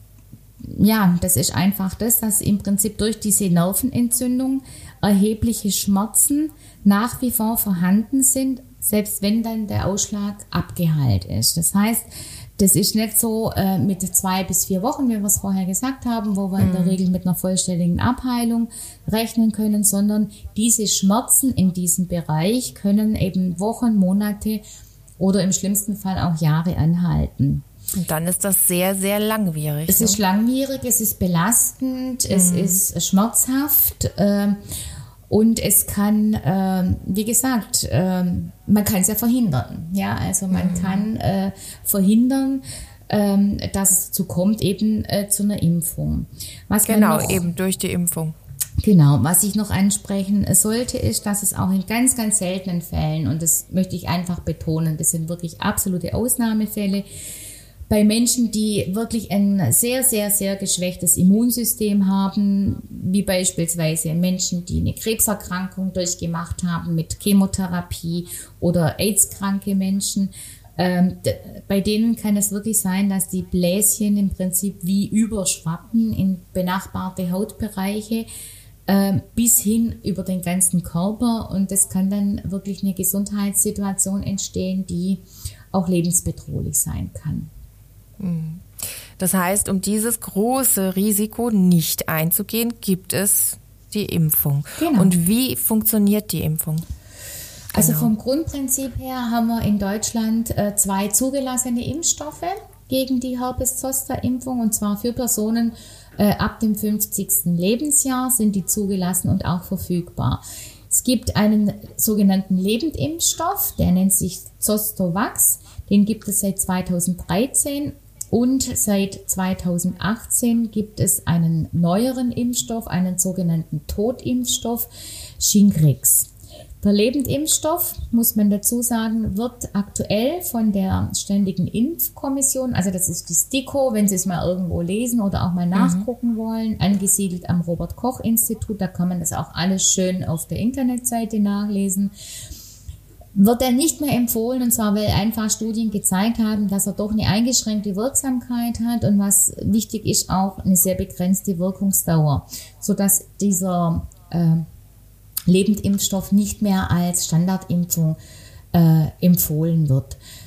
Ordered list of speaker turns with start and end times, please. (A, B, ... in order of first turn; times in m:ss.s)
0:00.6-0:24.6 A
0:16.6-0:17.0 B
0:25.2-0:27.6 A
0:27.9-0:30.2 B
0:29.9-0:34.6 A
0:32.3-0:32.8 B
0:35.3-0:47.5 A
0:40.5-0:41.1 B
0:46.8-0:48.4 B
0:48.8-0:57.1 A
0:57.9-1:18.3 A
1:18.9-1:27.5 A
1:28.2-1:36.9 B
1:34.8-1:35.2 A
1:37.7-2:04.9 A
1:37.7-1:38.1 B
2:05.4-2:22.1 A
2:15.7-2:16.0 B
2:23.4-2:34.6 A
2:35.5-2:38.2 A
2:38.7-2:40.2 A